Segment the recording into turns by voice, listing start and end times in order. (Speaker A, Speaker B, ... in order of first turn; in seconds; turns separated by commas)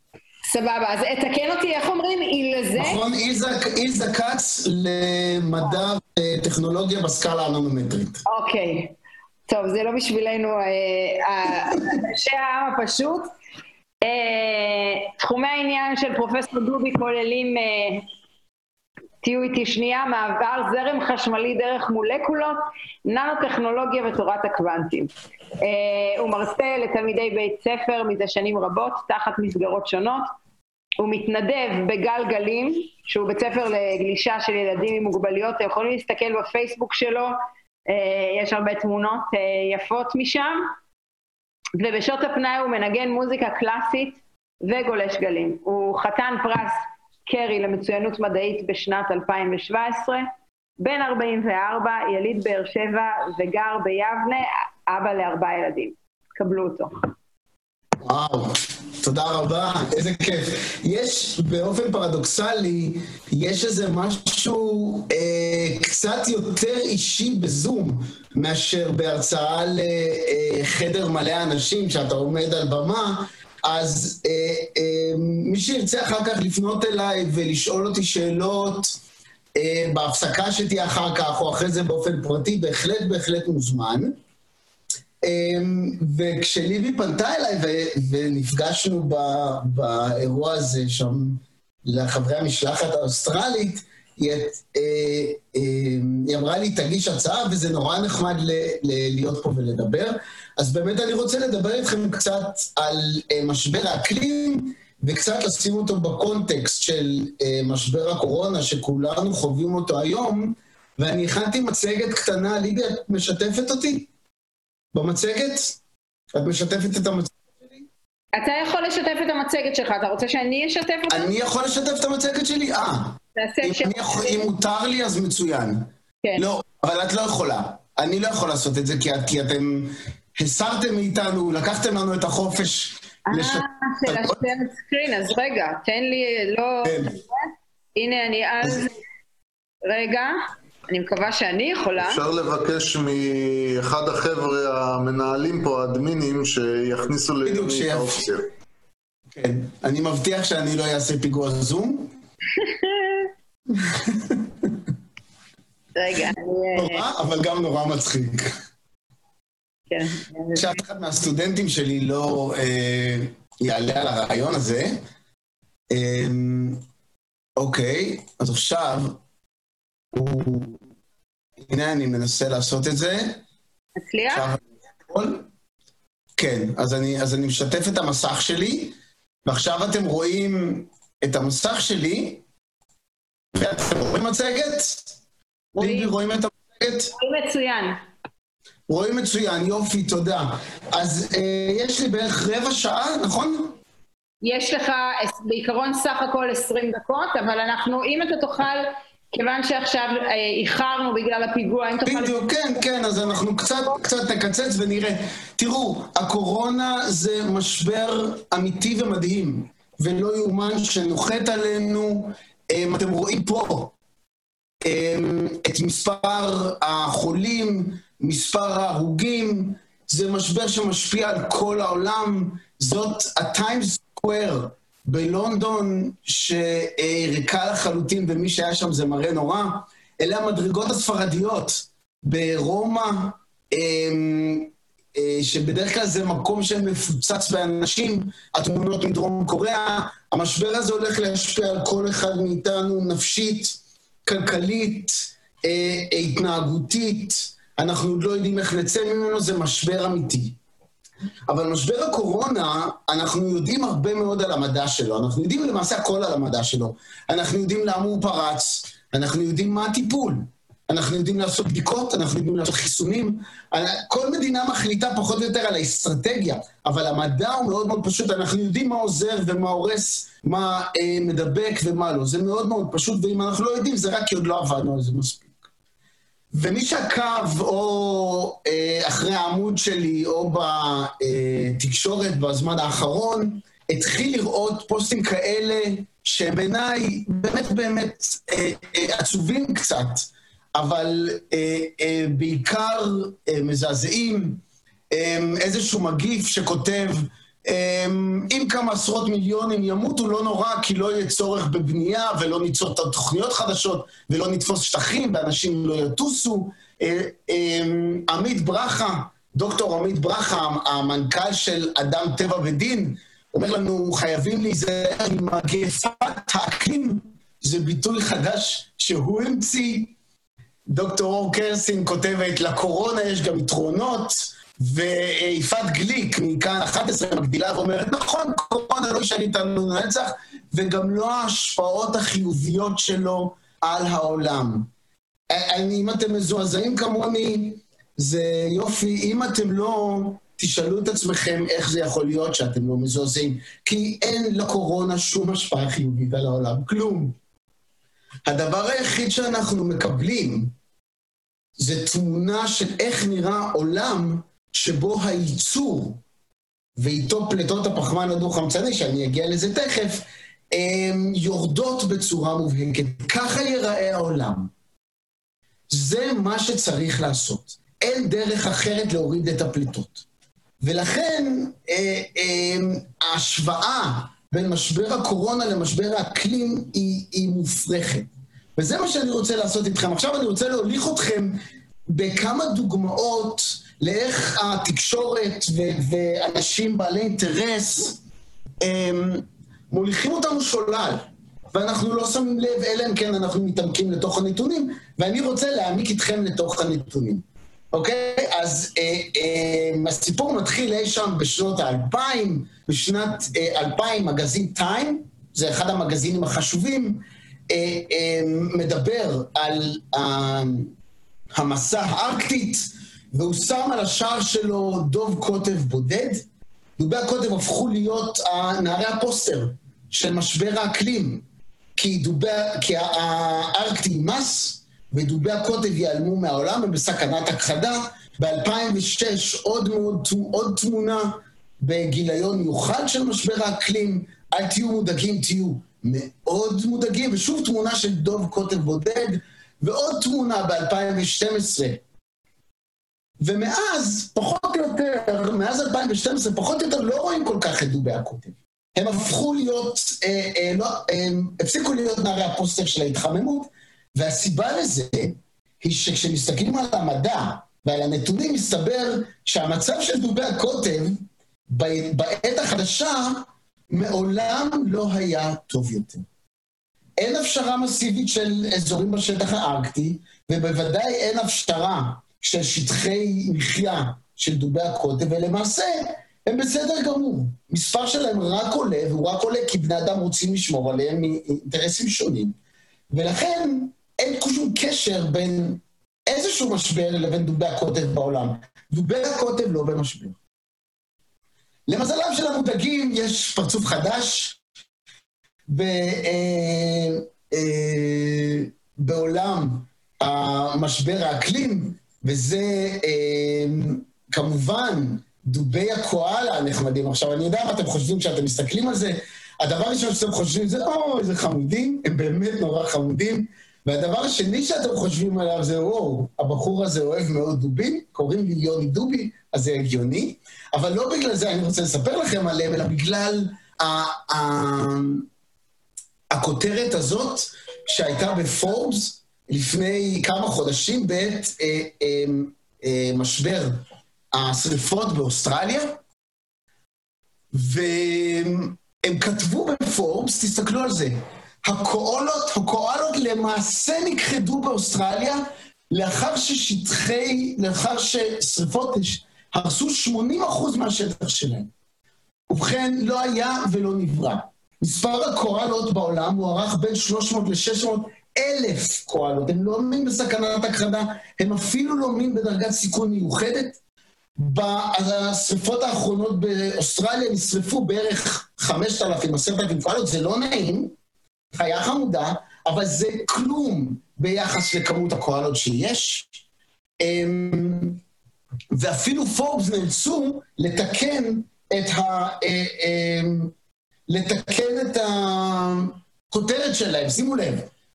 Speaker A: 0.5-3.0, Speaker B: 2.8-8.2, Speaker A: 8.3-8.9, Speaker A: 9.5-13.3, Speaker A: 14.0-18.1, Speaker A: 19.2-30.3, Speaker A: 31.0-37.4, Speaker A: 37.9-40.7, Speaker A: 41.8-50.3, Speaker A: 50.8-57.0, Speaker B: 58.0-79.0, Speaker B: 79.5-84.1, Speaker B: 85.2-114.1, Speaker B: 114.9-115.8, Speaker B: 116.3-117.8, Speaker A: 118.3-121.3, Speaker B: 121.1-134.4, Speaker A: 123.3-124.5, Speaker A: 133.3-138.9, Speaker B: 136.8-137.2, Speaker A: 139.8-140.4, Speaker A: 140.9-142.2, Speaker C: 142.0-148.4, Speaker B: 147.4-148.2, Speaker B: 149.3-152.1, Speaker A: 152.6-153.3, Speaker B: 153.7-154.7, Speaker A: 155.9-157.1, Speaker B: 156.8-158.5, Speaker A: 159.9-160.8, Speaker B: 160.5-165.0, Speaker B: 165.9-166.8, Speaker B: 167.6-169.2, Speaker B: 170.1-170.8, Speaker B: 171.7-173.4, Speaker A: 174.0-174.5, Speaker B: 174.3-174.6, Speaker B: 175.1-175.5, Speaker B: 176.4-182.4, Speaker B: 183.5-185.1, Speaker B: 185.7-187.1, Speaker A: 185.8-186.1, Speaker A: 187.1-188.0, Speaker B: 188.9-193.7, Speaker A: 194.4-202.3, Speaker B: 202.0-213.9, Speaker B: 214.8-250.6, Speaker B: 251.5-275.6, Speaker B: 276.5-320.1, Speaker B: 320.9-334.9, Speaker B: 335.5-347.4, Speaker B: 348.4-350.7, Speaker B: 351.8-356.2, Speaker B: 357.0-364.7, Speaker B: 365.9-370.2, Speaker B: 370.8-381.6, Speaker B: 382.1-388.2, Speaker B: 388.8-410.9, Speaker B: 411.5-416.4, Speaker B: 417.0-421.4, Speaker B: 421.9-442.0, Speaker B: 443.4-466.2, Speaker B: 467.2-482.5, Speaker B: 483.1-490.4, Speaker B: 491.9-494.6, Speaker B: 495.7-525.3, Speaker B: 526.3-533.8, Speaker B: 534.3-536.0, Speaker B: 537.5-551.7, Speaker B: 552.5-563.8, Speaker B: 564.4-570.9, Speaker B: 571.5-576.3, Speaker B: 577.0-578.0, Speaker B: 578.7-583.5, Speaker B: 584.1-587.7